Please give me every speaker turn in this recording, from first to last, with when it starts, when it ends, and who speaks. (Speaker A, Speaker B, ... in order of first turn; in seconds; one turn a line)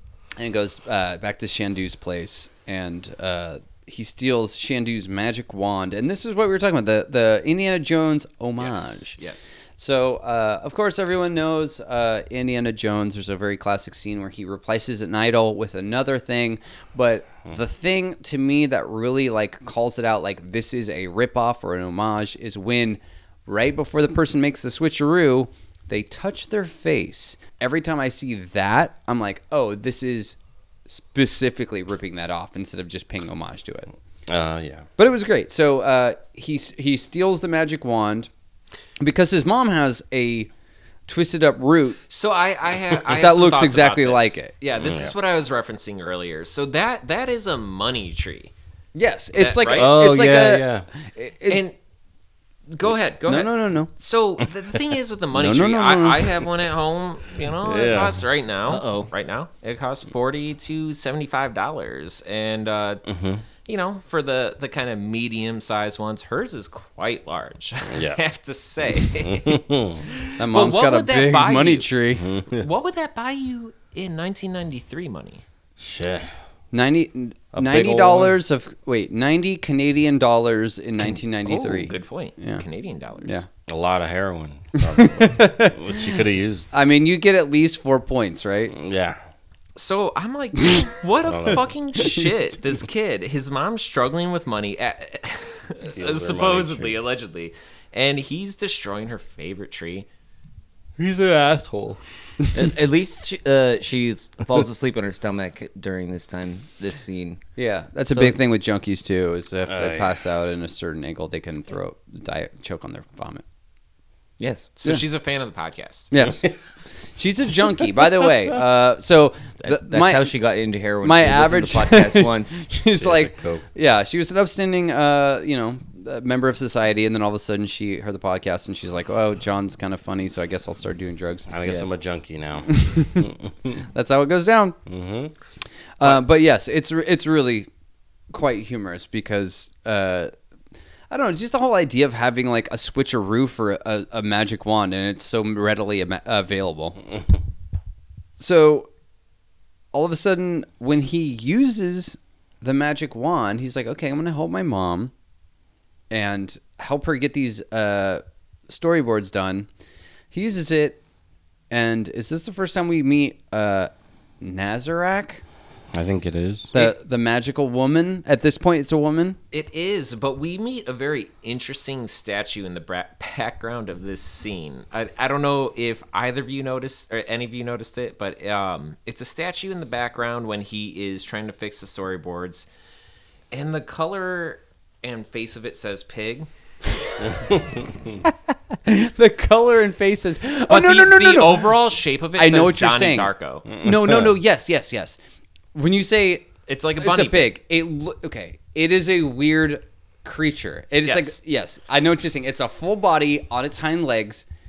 Speaker A: 0.4-9.1
Speaker B: 8.6-9.5
Speaker A: 9.8-30.4
Speaker A: 30.9-33.9
Speaker C: 34.3-34.9
Speaker A: 35.0-38.3
Speaker A: 39.0-40.5
Speaker A: 41.1-42.0
Speaker B: 42.1-48.5
Speaker A: 43.1-44.5
Speaker C: 44.8-45.1
Speaker A: 48.9-51.6
Speaker B: 49.3-49.9
Speaker C: 49.7-50.9
Speaker B: 51.5-51.8
Speaker B: 52.7-63.0
Speaker A: 53.3-53.9
Speaker A: 55.3-56.4
Speaker C: 57.6-58.2
Speaker D: 58.7-59.1
Speaker C: 63.1-63.4
Speaker B: 63.6-71.9
Speaker C: 67.9-68.2
Speaker C: 69.0-70.0
Speaker A: 70.4-72.2
Speaker C: 72.2-72.7
Speaker B: 72.5-75.4
Speaker C: 75.8-76.3
Speaker A: 76.7-82.6
Speaker C: 77.5-78.4
Speaker B: 81.5-83.4
Speaker A: 83.2-83.5
Speaker C: 83.7-86.7
Speaker A: 84.8-86.0
Speaker A: 86.7-88.7
Speaker C: 88.7-89.2
Speaker B: 89.8-100.1
Speaker C: 91.3-91.7
Speaker C: 95.8-97.0
Speaker C: 101.0-102.0
Speaker D: 102.5-107.4
Speaker A: 107.6-113.4
Speaker D: 108.1-108.3
Speaker C: 109.7-110.1
Speaker D: 114.4-114.7
Speaker B: 114.8-116.1
Speaker A: 116.1-116.4
Speaker A: 117.2-120.3
Speaker D: 119.6-122.7
Speaker A: 121.0-131.5
Speaker C: 123.0-123.6
Speaker C: 131.5-133.8
Speaker A: 132.7-133.3
Speaker A: 133.8-134.8
Speaker C: 134.9-135.3
Speaker A: 136.0-137.7
Speaker A: 138.3-140.3
Speaker A: 141.1-147.0
Speaker A: 148.4-148.9
Speaker A: 149.9-155.1
Speaker A: 156.1-159.7
Speaker A: 160.3-161.0
Speaker A: 161.7-163.9
Speaker A: 164.4-165.4
Speaker C: 165.9-166.7
Speaker A: 166.7-169.4
Speaker B: 169.5-182.7
Speaker B: 183.5-186.5
Speaker C: 187.2-188.2
Speaker A: 188.2-191.8
Speaker B: 190.7-193.7
Speaker A: 192.3-195.2
Speaker C: 193.7-194.3
Speaker A: 195.7-204.4
Speaker B: 196.7-197.5
Speaker B: 201.1-201.4